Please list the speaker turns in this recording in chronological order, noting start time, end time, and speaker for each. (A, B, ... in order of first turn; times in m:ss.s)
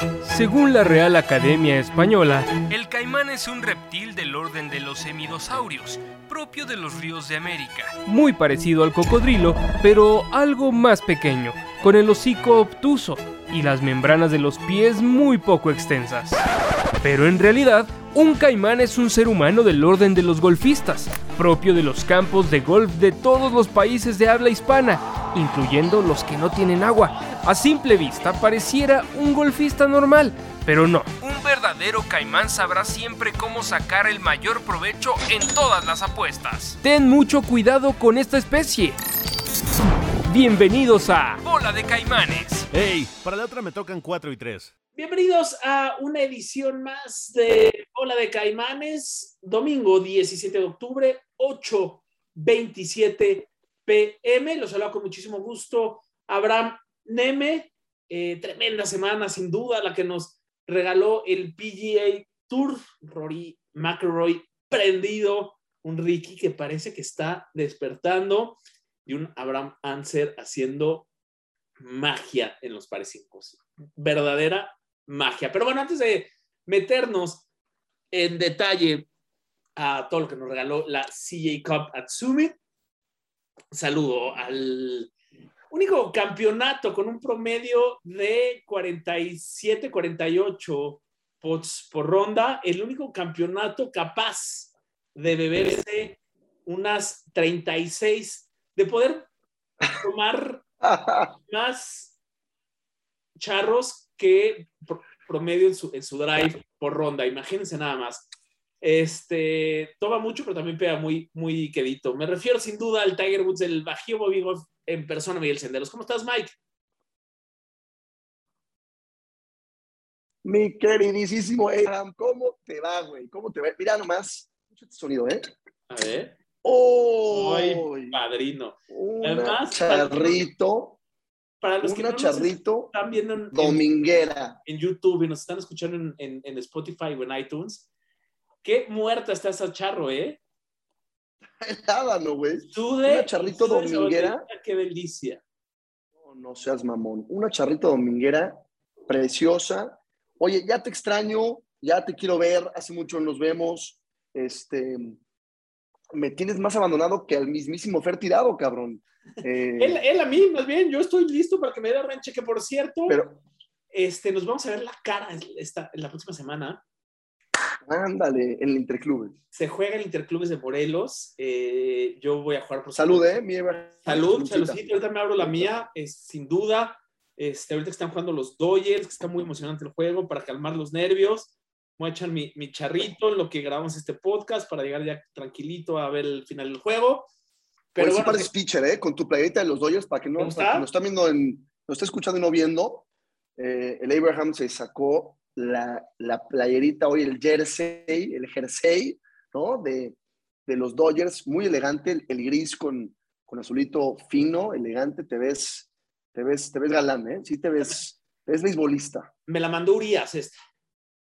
0:00.2-0:16.4 A
0:17.0-0:39.0 A
0:40.3-0:42.7 A
0:42.7-0:44.7 B
0:45.0-1:11.1 C
1:11.8-1:17.4 C
1:18.1-1:19.1 C
1:19.8-1:22.6 C
1:23.7-1:25.1 C
1:25.7-1:39.3 C
1:39.9-1:40.6 C
1:40.8-1:41.4 D
1:41.5-1:42.1 C
1:43.4-1:48.3 C
1:48.8-1:56.6 C
2:00.4-2:05.5 D
2:05.9-2:06.3 C
2:06.6-2:08.2 D
2:07.3-2:10.4 C
2:08.9-2:11.0 D
2:11.6-2:13.8 C
2:11.8-2:12.9 D
2:13.5-2:14.6 D
2:14.7-2:17.9 C
2:18.6-2:20.4 C
2:21.6-2:24.4 D
2:22.7-2:25.4 C
2:26.2-2:35.2 D
2:36.1-2:40.0 D
2:39.8-2:43.2 C
2:43.1-2:43.4 D
2:43.9-2:46.8 C
2:47.8-2:49.4 D
2:49.5-2:53.4 C
2:52.9-2:54.8 D
2:54.0-3:07.3 C
2:55.4-2:55.7 D
3:08.0-3:08.5 C
3:08.0-3:13.1 D
3:10.4-3:10.9 C
3:13.6-3:20.2 D
3:20.7-3:29.3 D
3:29.5-3:30.6 C